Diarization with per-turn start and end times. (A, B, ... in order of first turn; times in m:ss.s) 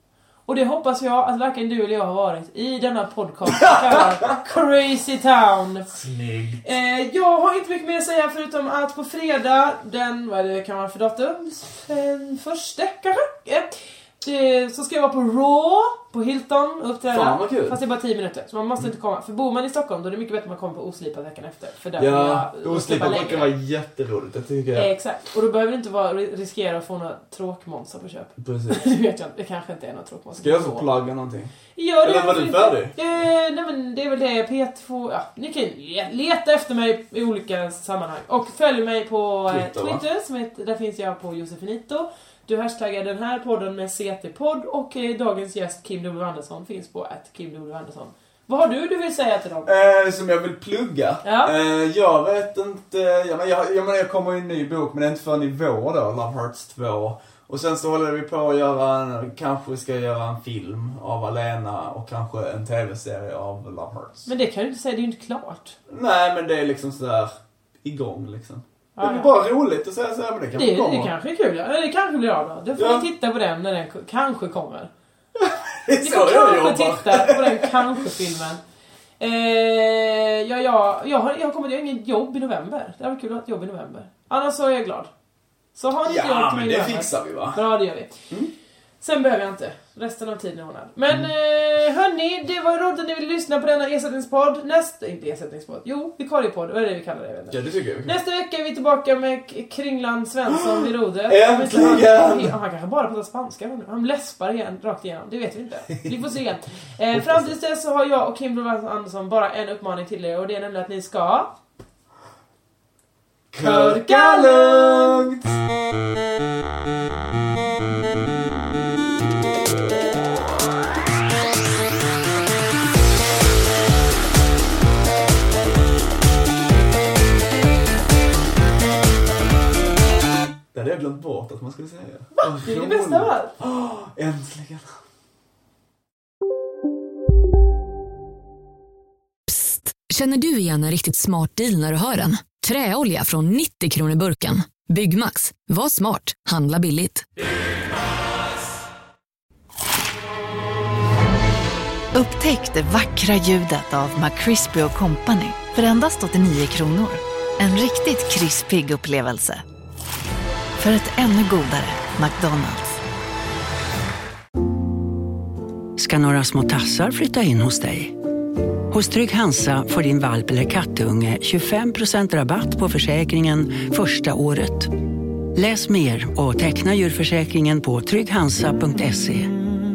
0:00.5-0:05.9 A
0:03.6-0:04.1 B
0:06.0-0:06.6 B
0:06.6-0:23.5 A
0:17.1-0:17.8 B
0:22.0-0:24.9 B
0:24.7-0:30.8 A
0:28.4-0:28.9 B
0:30.4-0:32.9 B
0:31.7-0:49.7 A
0:39.5-0:40.0 B
0:49.6-1:04.3 B
0:51.2-0:51.5 A
1:04.3-1:05.8 A
1:05.9-1:11.1 B
1:09.0-1:09.3 A
1:10.5-1:14.9 A
1:12.8-1:13.1 B
1:15.3-1:18.1 B
1:16.0-1:18.6 A
1:19.2-1:25.1 A
1:25.7-1:28.3 A
1:26.0-1:27.6 B
1:29.0-1:51.5 A
1:37.5-1:38.2 B
1:40.5-1:42.5 B
1:47.1-1:47.5 B
1:53.5-1:55.4 B
1:53.6-1:55.3 A
2:10.7-2:14.9 B
2:12.4-2:13.5 A
2:19.5-2:27.2 C
2:32.1-2:39.6 D
2:40.8-2:43.0 D
2:46.0-2:48.2 E
2:48.9-2:54.9 E
2:55.5-2:59.5 E